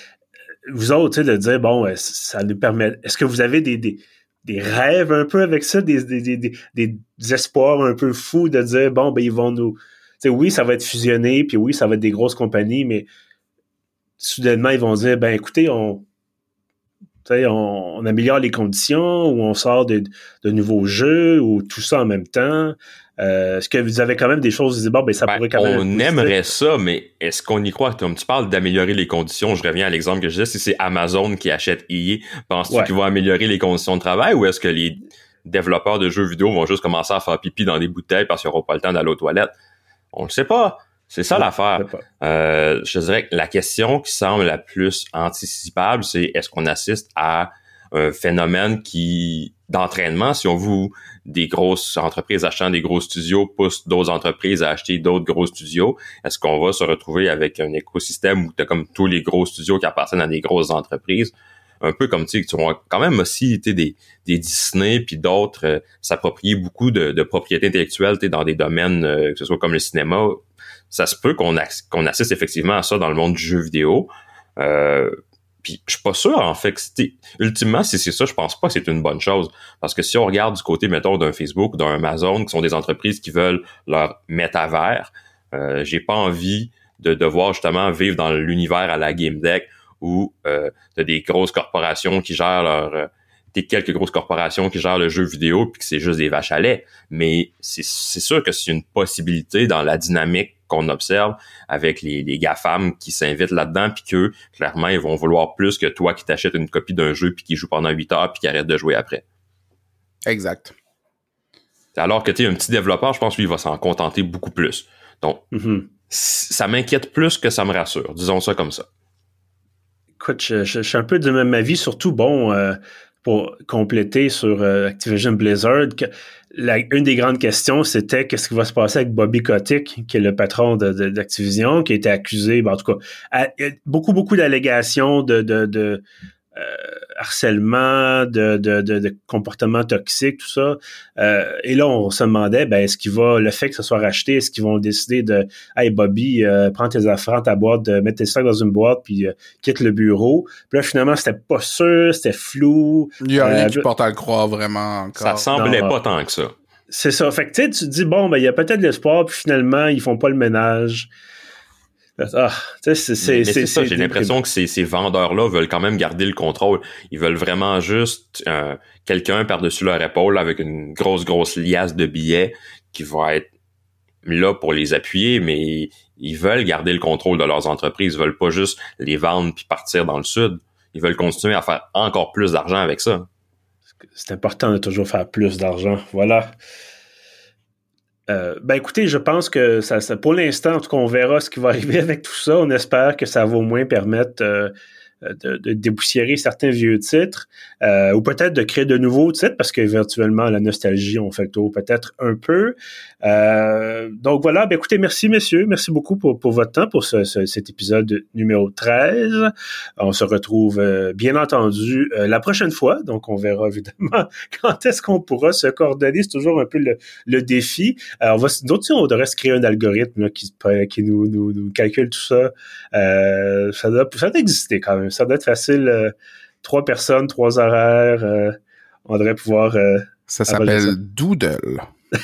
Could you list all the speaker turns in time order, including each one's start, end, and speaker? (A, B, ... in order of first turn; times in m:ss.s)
0:00.7-0:13.1 A
0:14.2-0:16.0 A
0:17.2-0:26.4 A
0:25.3-0:39.5 B
0:40.1-1:49.2 B
0:41.3-0:42.0 A
1:50.2-1:50.7 C
1:52.0-1:55.4 B
1:55.5-1:55.9 A
1:56.1-1:58.8 B
2:00.2-2:16.0 A
2:16.5-2:33.8 A
2:33.2-2:35.5 C
2:35.2-2:36.5 B
2:35.6-2:35.9 A
2:36.9-2:41.1 A
2:42.2-2:44.3 A
2:43.2-2:53.5 B
2:54.2-3:03.3 B
3:04.1-3:06.5 A
3:08.3-3:50.9 A
3:50.3-3:51.8 C